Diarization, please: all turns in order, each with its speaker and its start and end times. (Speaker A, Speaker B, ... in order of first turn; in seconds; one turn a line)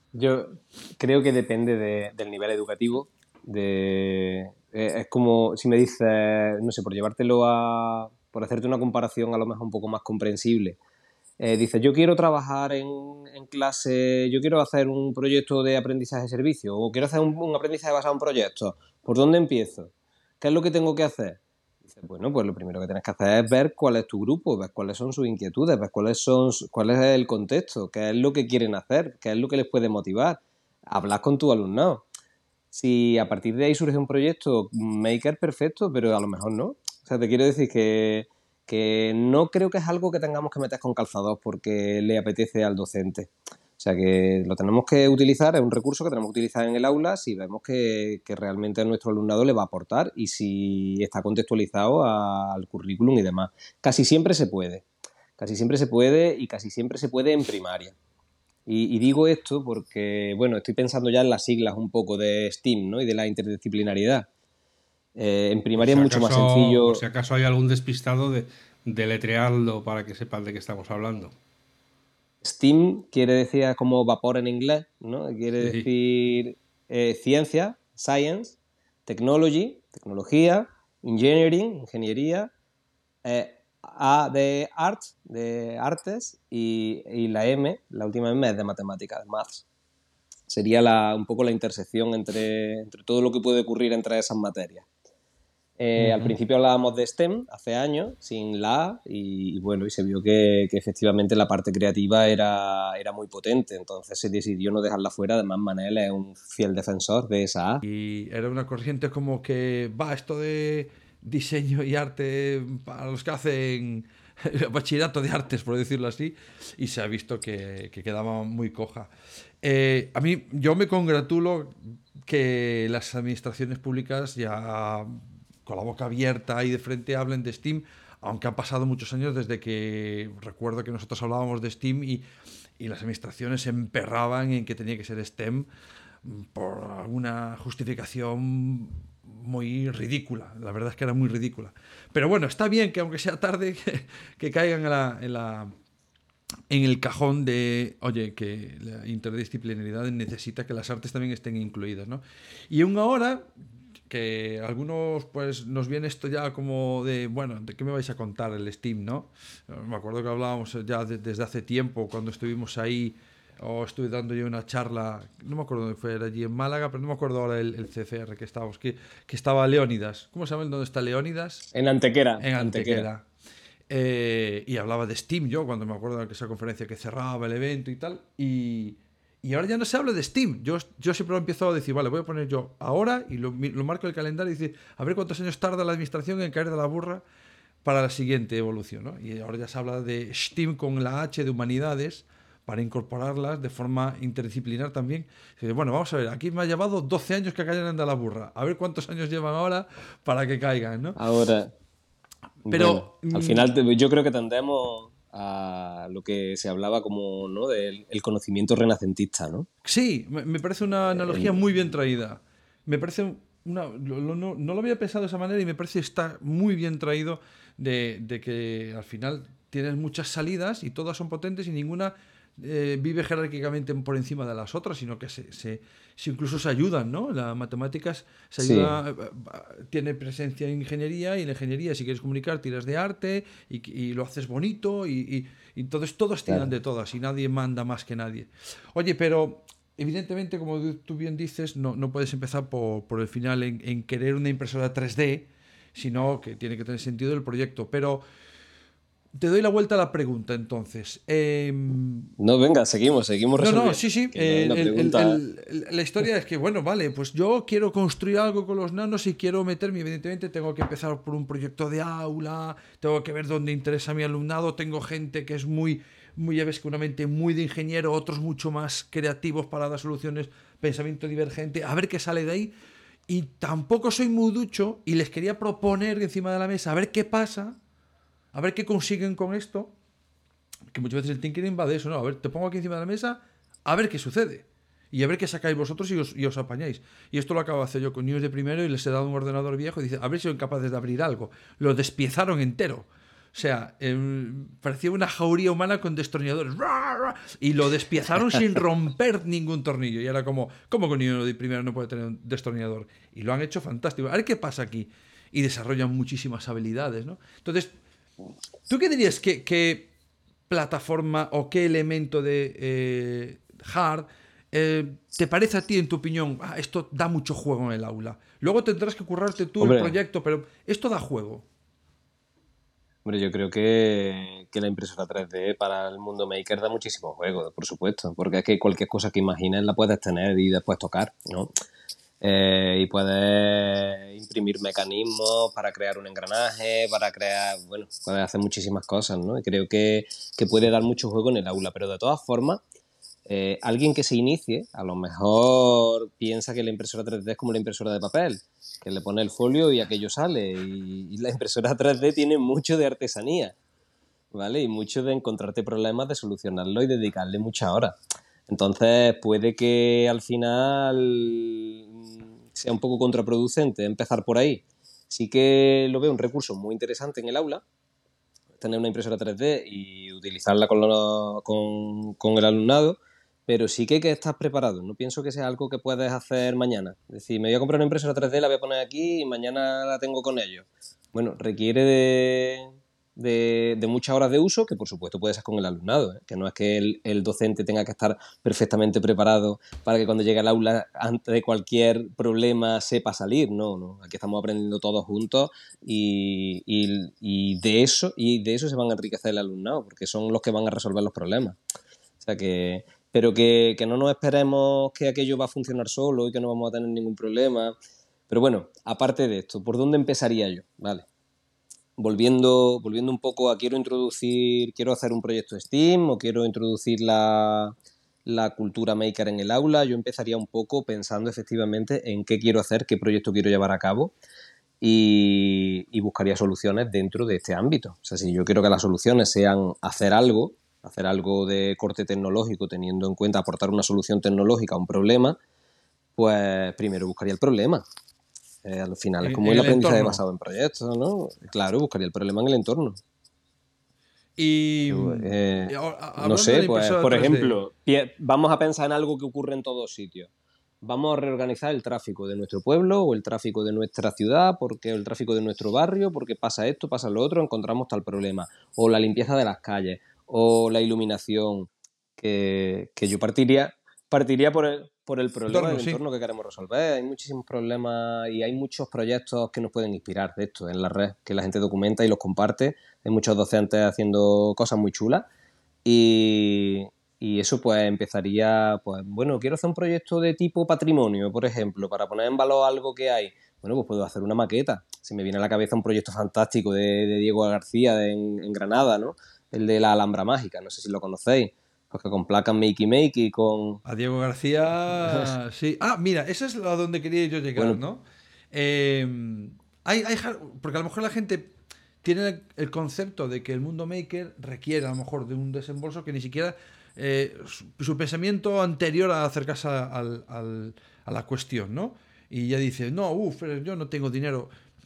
Speaker A: 0.1-10.8
Speaker A: 11.4-32.0
Speaker A: 32.7-54.9
Speaker A: 55.4-58.0
Speaker A: 58.7-64.3
Speaker A: 65.2-67.0
Speaker B: 65.8-71.3
Speaker A: 72.4-82.5
Speaker B: 75.6-75.9
Speaker A: 83.2-89.7
Speaker A: 90.5-94.9
Speaker A: 95.8-107.8
Speaker B: 96.0-96.3
Speaker C: 107.8-119.1
Speaker C: 119.6-132.2
Speaker C: 132.8-135.7
Speaker C: 136.2-145.7
Speaker C: 146.7-153.5
Speaker C: 154.1-171.7
Speaker A: 171.7-173.1
Speaker C: 172.4-173.3
Speaker C: 173.9-187.2
Speaker C: 187.8-201.2
Speaker A: 201.2-201.7
Speaker A: 202.7-209.7
Speaker C: 202.7-203.7
Speaker C: 209.8-248.2
Speaker A: 211.2-211.5
Speaker A: 228.6-229.0
Speaker C: 249.4-252.3
Speaker A: 252.4-255.4
Speaker C: 253.6-272.7
Speaker C: 273.3-277.8
Speaker C: 278.5-279.9
Speaker C: 280.9-307.9
Speaker C: 308.9-310.1
Speaker C: 310.7-321.7
Speaker A: 319.8-320.2
Speaker A: 323.2-331.7
Speaker A: 332.4-342.8
Speaker A: 343.5-353.8
Speaker A: 354.5-358.1
Speaker A: 358.7-367.8
Speaker A: 368.8-401.8
Speaker A: 402.4-407.9
Speaker A: 408.5-411.3
Speaker A: 412.2-417.9
Speaker A: 418.5-424.3
Speaker A: 425.0-435.6
Speaker A: 436.4-438.1
Speaker A: 438.8-443.2
Speaker C: 439.4-440.4
Speaker C: 444.6-447.8
Speaker A: 445.1-450.5
Speaker A: 451.0-475.5
Speaker C: 465.7-466.2
Speaker A: 476.1-494.0
Speaker C: 494.1-501.7
Speaker C: 502.2-514.7